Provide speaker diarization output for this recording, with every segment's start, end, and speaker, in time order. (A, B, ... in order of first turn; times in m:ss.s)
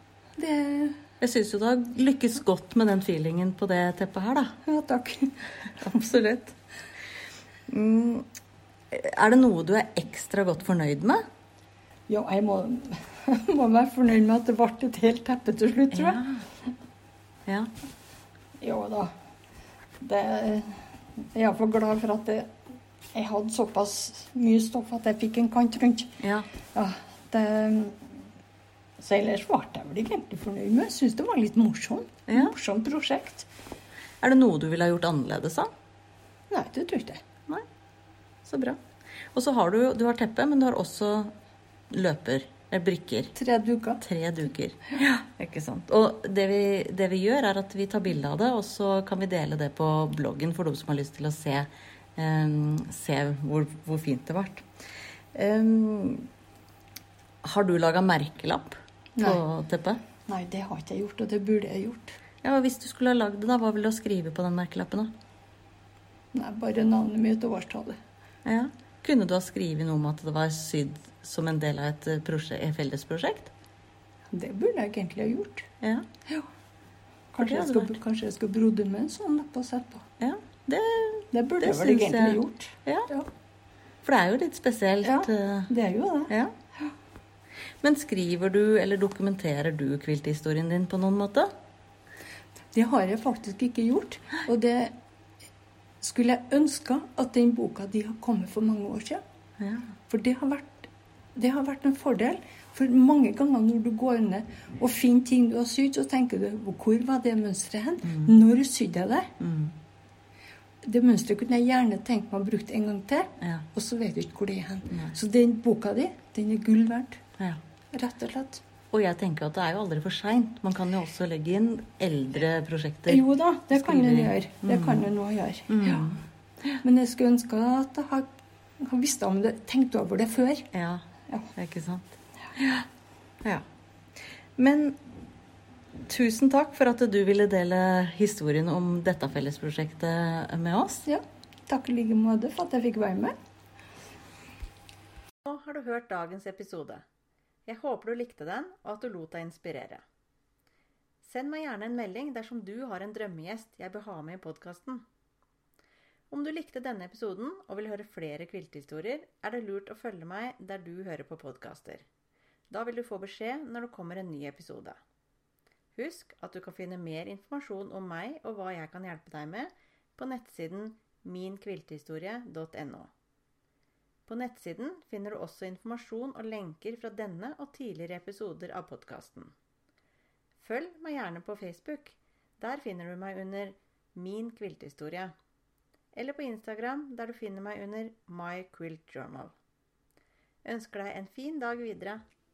0:00.4-0:01.0 A
0:01.2-0:04.5 B
0:04.6-0:06.4 A
0:05.8-0:06.5 B
0:07.7-0:08.3 B
0:08.9-0:11.2 B
0:12.1-0:16.2 A
0:15.9-0:16.4 B
0:18.6-0:19.1 A
0:20.0-0:20.8 A
0:21.3-0:22.5 A
0:23.1-0:26.2 A
0:26.2-0:26.5 B
0:26.7-0:28.0 A
0:29.0-0:33.5 A
0:32.3-0:32.5 B
0:34.2-0:35.7 B
0:36.5-0:37.2 A
0:38.4-0:38.8 B
0:39.3-0:41.3 B
0:41.9-0:43.3 B
0:43.4-0:44.0 A
0:44.0-0:54.6 B
0:55.3-0:56.3 B
0:57.4-1:00.0 B
0:59.2-0:59.4 A
1:00.3-1:02.2 A
1:02.4-1:05.1 B
1:06.3-1:08.0 A
1:08.4-1:13.5 B
1:14.3-1:15.7 A
1:15.8-1:16.1 B
1:17.3-1:20.1 A
1:17.4-1:18.0 B
1:20.2-1:23.1 B
1:21.3-1:23.3 A
1:24.0-1:25.7 B
1:25.0-1:26.3 A
1:27.8-1:31.5 B
1:32.7-1:34.9 A
1:36.0-1:39.2 A
1:39.6-1:39.9 B
1:40.1-1:49.3 A
1:48.0-1:48.3 B
1:49.4-1:49.7 B
1:50.8-1:57.2 A
1:53.4-1:53.6 B
1:57.9-1:58.6 A
1:58.9-2:05.1 B
2:03.1-2:06.1 A
2:05.7-2:06.8 B
2:06.8-2:08.3 A
2:08.8-2:10.7 A
2:10.7-2:11.0 B
2:11.6-2:12.8 B
2:14.6-2:15.0 B
2:16.1-2:21.0 B
2:21.0-2:23.3 A
2:25.4-2:27.0 C
2:27.6-2:30.0 C
2:31.2-2:35.0 C
2:36.3-2:42.0 C
2:42.7-2:45.0 C
2:45.9-2:53.1 C
2:54.2-2:59.5 C
3:00.6-3:05.3 C
3:06.1-3:09.5 C
3:10.6-3:12.2 C